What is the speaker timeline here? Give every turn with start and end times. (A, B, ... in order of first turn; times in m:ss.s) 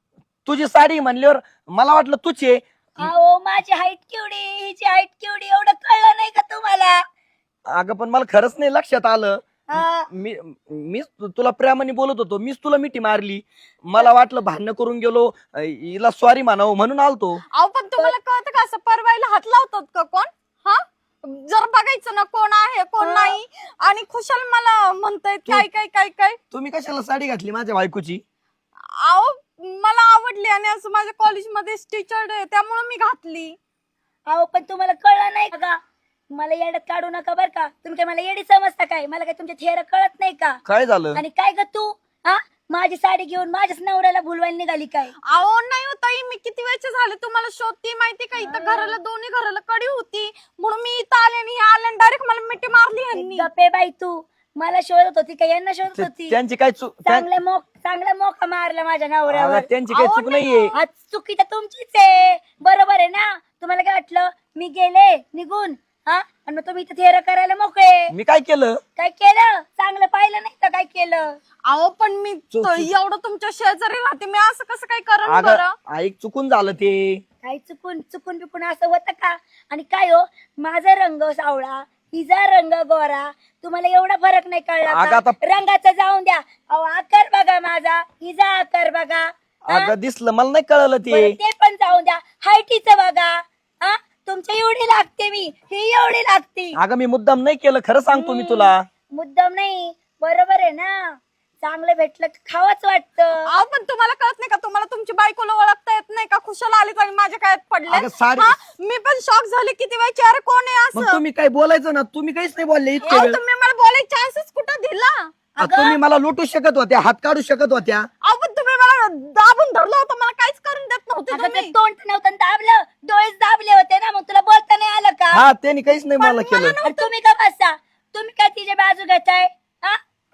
0:00.4-0:03.1 A
0:03.0-0:07.0 B
0:07.7-0:17.4 A
0:09.7-0:10.1 B
0:17.5-0:26.4 C
0:23.0-0:23.4 B
0:26.5-0:28.2 A
0:29.0-0:33.6 C
0:34.3-0:35.8 B
0:36.3-0:40.6 B
0:40.6-0:41.2 A
0:41.1-0:45.1 B
0:45.3-0:53.5 C
0:48.4-0:49.0 B
0:53.1-0:56.4 B
0:55.9-0:57.3 A
0:57.0-0:59.7 B
0:59.3-1:00.7 A
0:59.9-1:00.7 C
1:00.7-1:08.1 B
1:08.1-1:08.8 A
1:09.0-1:11.4 B
1:11.7-1:15.7 C
1:12.5-1:12.9 A
1:15.2-1:17.2 A
1:17.4-1:29.9 B
1:24.8-1:25.4 A
1:29.7-1:31.4 A
1:31.1-1:36.8 B
1:36.7-1:38.8 A
1:38.1-1:38.7 C
1:39.1-1:43.5 B
1:43.4-1:51.2 C
1:47.9-1:48.5 A
1:50.9-1:53.4 A
1:53.1-1:56.0 C
1:55.6-1:58.1 A
1:58.2-2:01.7 C
2:01.3-2:05.5 B
2:05.3-2:06.8 A
2:06.2-2:07.1 C
2:06.8-2:10.0 B